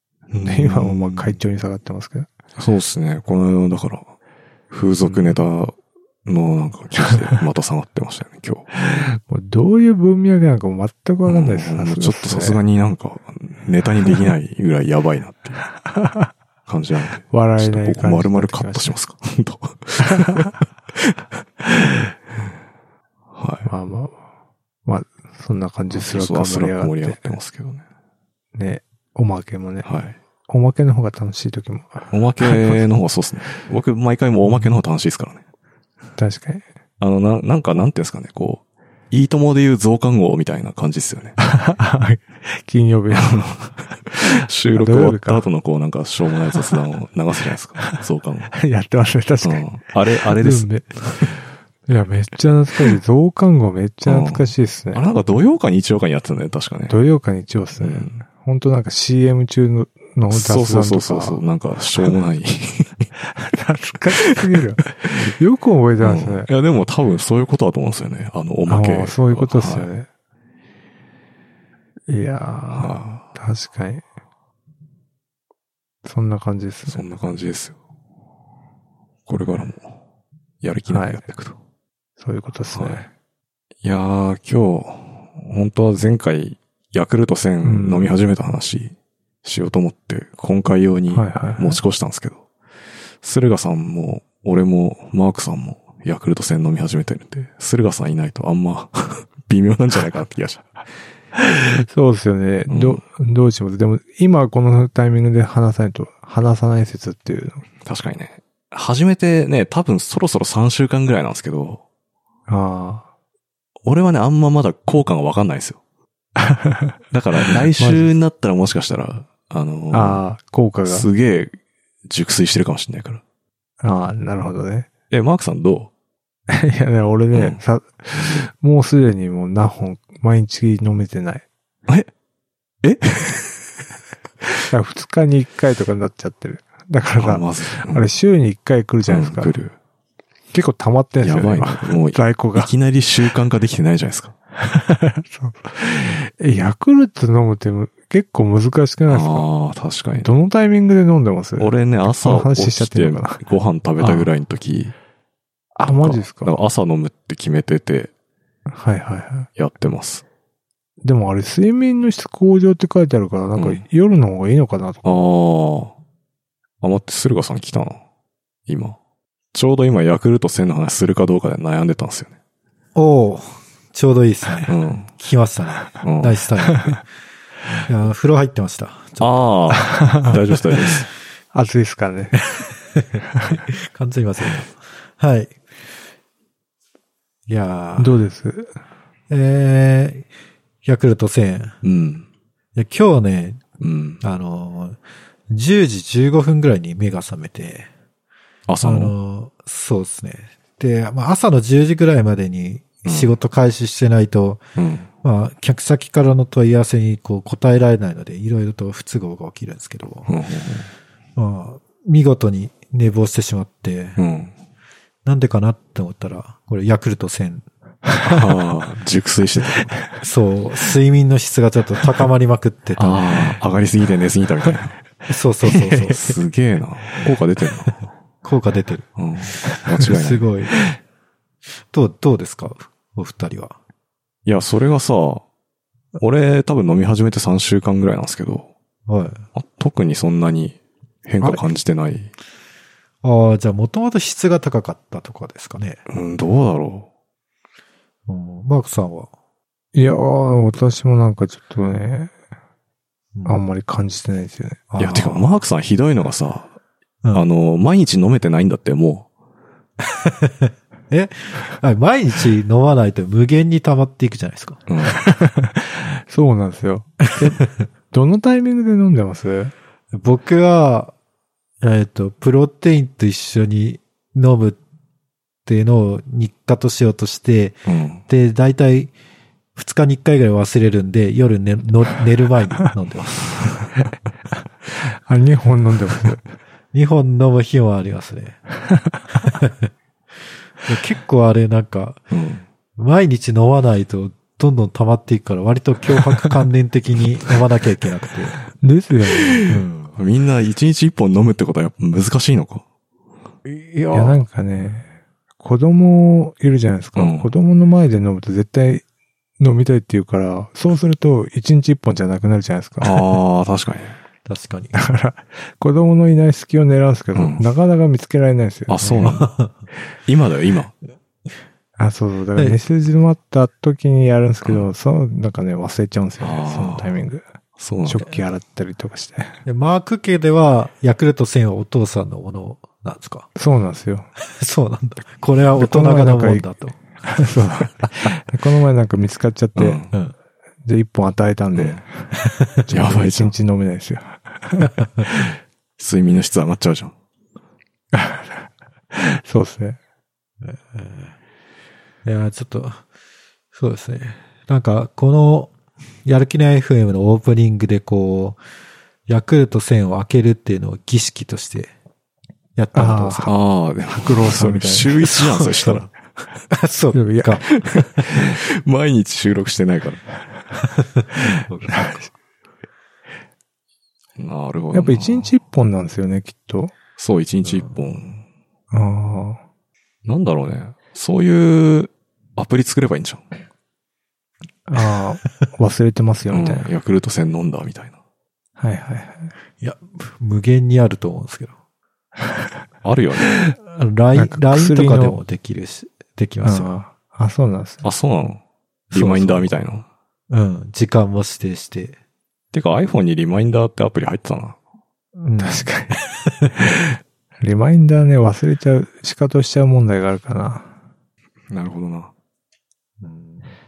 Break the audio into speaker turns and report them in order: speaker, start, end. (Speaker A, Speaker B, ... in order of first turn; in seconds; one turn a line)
Speaker A: 0.3-1.4
Speaker B: 0.4-2.3
Speaker A: 2.6-4.1
Speaker A: 4.7-8.8
Speaker B: 5.0-5.4
Speaker B: 8.7-12.6
Speaker A: 11.2-15.6
Speaker B: 15.8-16.3
Speaker A: 16.7-22.1
Speaker B: 17.3-18.9
Speaker B: 20.0-20.5
Speaker A: 23.3-23.7
Speaker B: 23.6-24.2
Speaker B: 24.8-27.2
Speaker A: 25.9-27.8
Speaker B: 28.5-29.9
Speaker A: 29.8-30.1
Speaker B: 30.5-32.9
Speaker A: 32.1-35.4
Speaker B: 36.2-36.6
Speaker A: 37.0-41.4
Speaker B: 41.4-43.6
Speaker A: 43.2-48.5
Speaker B: 44.7-45.5
Speaker B: 47.8-55.0
Speaker A: 49.4-51.3
Speaker A: 54.0-57.0
Speaker B: 56.9-61.4
Speaker A: 57.8-58.2
Speaker A: 60.3-63.1
Speaker B: 63.3-66.5
Speaker A: 66.0-69.9
Speaker B: 68.7-70.1
Speaker B: 72.1-74.0
Speaker A: 72.7-73.3
Speaker B: 76.0-77.0
Speaker A: 76.8-77.8
Speaker A: 79.3-80.0
Speaker A: 80.6-81.6
Speaker B: 80.9-81.2
Speaker B: 82.2-83.1
Speaker A: 82.7-83.0
Speaker A: 83.8-92.4
Speaker B: 87.6-88.2
Speaker B: 91.1-91.8
Speaker A: 93.2-100.7
Speaker B: 101.9-107.6
Speaker A: 102.7-103.0
Speaker A: 107.8-111.8
Speaker B: 112.5-113.1
Speaker A: 113.8-115.8
Speaker B: 116.4-116.9
Speaker A: 117.1-120.2
Speaker B: 117.7-118.2
Speaker B: 119.9-121.1
Speaker A: 120.8-123.2
Speaker B: 123.8-124.9
Speaker A: 125.1-125.9
Speaker B: 126.5-131.4
Speaker A: 127.3-127.6
Speaker A: 132.8-133.8
Speaker B: 134.6-139.6
Speaker A: 137.2-138.1
Speaker A: 139.1-139.8
Speaker B: 140.5-142.7
Speaker A: 141.2-144.3
Speaker B: 144.6-149.5
Speaker A: 149.1-150.3
Speaker B: 150.2-153.4
Speaker A: 151.6-154.9
Speaker B: 154.0-154.3
Speaker B: 155.7-156.5
Speaker A: 155.8-158.1
Speaker B: 158.7-159.5
Speaker A: 159.6-160.2
Speaker B: 161.0-165.0
Speaker A: 163.6-163.8
Speaker A: 165.0-165.9
Speaker A: 166.8-168.0
Speaker A: 168.7-169.0
Speaker A: 169.5-172.3
Speaker C: 172.9-177.0
Speaker A: 174.7-175.1
Speaker A: 176.0-176.4
Speaker C: 177.8-179.3
Speaker A: 179.2-181.1
Speaker B: 179.7-180.6
Speaker B: 181.5-182.4
Speaker C: 182.6-185.6
Speaker B: 183.3-183.6
Speaker C: 187.5-188.1
Speaker B: 188.0-188.7
Speaker C: 189.3-190.3
Speaker C: 190.8-191.8
Speaker A: 191.8-192.2
Speaker C: 192.7-193.6
Speaker A: 193.8-194.2
Speaker C: 194.2-195.0
Speaker C: 195.5-197.9
Speaker A: 198.7-199.1
Speaker C: 198.8-204.6
Speaker A: 203.0-203.4
Speaker A: 204.8-205.1
Speaker C: 205.2-210.3
Speaker A: 210.3-210.9
Speaker C: 211.3-214.2
Speaker A: 214.2-214.5
Speaker C: 215.2-217.6
Speaker B: 218.1-218.3
Speaker A: 218.2-219.9
Speaker C: 220.2-223.3
Speaker A: 223.0-225.0
Speaker C: 225.3-226.3
Speaker A: 226.0-228.1
Speaker C: 228.4-229.1
Speaker A: 229.2-230.5
Speaker C: 229.7-230.9
Speaker C: 231.7-233.8
Speaker A: 234.4-235.4
Speaker A: 236.2-238.7
Speaker C: 239.1-239.4
Speaker A: 239.5-242.3
Speaker C: 243.2-246.0
Speaker A: 246.1-247.1
Speaker C: 248.3-249.3
Speaker B: 249.9-252.3
Speaker C: 253.3-253.6
Speaker B: 253.4-254.8
Speaker C: 254.9-255.5
Speaker A: 255.0-256.7
Speaker A: 257.3-259.3
Speaker C: 260.0-264.8
Speaker A: 264.9-265.2
Speaker B: 265.1-269.7
Speaker C: 270.1-271.1
Speaker C: 271.8-274.8
Speaker C: 275.6-279.1
Speaker A: 277.9-278.2
Speaker C: 279.8-283.9
Speaker B: 285.0-286.4
Speaker C: 286.9-288.6
Speaker B: 288.9-289.2
Speaker C: 289.4-289.9
Speaker C: 290.8-292.2
Speaker A: 292.3-292.6
Speaker C: 293.0-298.6
Speaker B: 298.8-299.8
Speaker C: 299.7-300.2
Speaker A: 300.1-302.8
Speaker C: 303.6-304.4
Speaker B: 304.1-309.0
Speaker A: 307.1-307.5
Speaker B: 309.6-313.2
Speaker A: 313.0-314.1
Speaker C: 314.4-314.9
Speaker B: 314.9-319.4
Speaker A: 317.3-317.6
Speaker A: 318.9-319.5
Speaker C: 319.2-319.8
Speaker A: 320.2-320.9
Speaker B: 322.0-327.5
Speaker A: 326.4-327.1
Speaker A: 327.8-328.2
Speaker B: 328.0-329.6
Speaker C: 329.6-333.5
Speaker B: 333.6-334.3
Speaker C: 334.4-337.0
Speaker B: 335.8-336.6
Speaker B: 337.2-340.0
Speaker A: 339.8-340.1
Speaker C: 340.1-340.3
Speaker B: 340.8-345.4
Speaker A: 341.7-342.0
Speaker C: 342.4-342.7
Speaker A: 342.9-343.5
Speaker A: 346.0-347.1
Speaker B: 348.1-350.0
Speaker C: 350.6-351.3
Speaker C: 352.2-353.0
Speaker C: 353.7-355.7
Speaker C: 356.2-358.6
Speaker C: 359.3-361.9
Speaker C: 362.8-363.6
Speaker B: 362.9-363.5
Speaker A: 363.4-366.5
Speaker B: 364.2-365.2
Speaker C: 365.3-366.0
Speaker C: 366.7-368.4
Speaker B: 367.1-367.6
Speaker A: 367.9-370.2
Speaker C: 371.7-372.2
Speaker B: 371.9-372.3
Speaker A: 374.4-375.5
Speaker B: 374.9-376.9
Speaker A: 377.2-378.4
Speaker C: 377.6-378.1
Speaker B: 378.9-379.6
Speaker A: 380.2-383.4
Speaker B: 384.9-386.9
Speaker A: 386.5-388.1
Speaker B: 388.8-389.5
Speaker C: 389.8-391.7
Speaker A: 393.0-393.5
Speaker C: 393.8-396.9
Speaker B: 394.3-395.4
Speaker B: 396.6-398.1
Speaker A: 398.0-400.1
Speaker C: 399.1-399.7
Speaker C: 400.5-402.1
Speaker A: 402.7-404.8
Speaker C: 405.4-406.7
Speaker B: 405.6-406.2
Speaker B: 407.6-410.9
Speaker A: 411.7-412.3
Speaker C: 413.2-413.7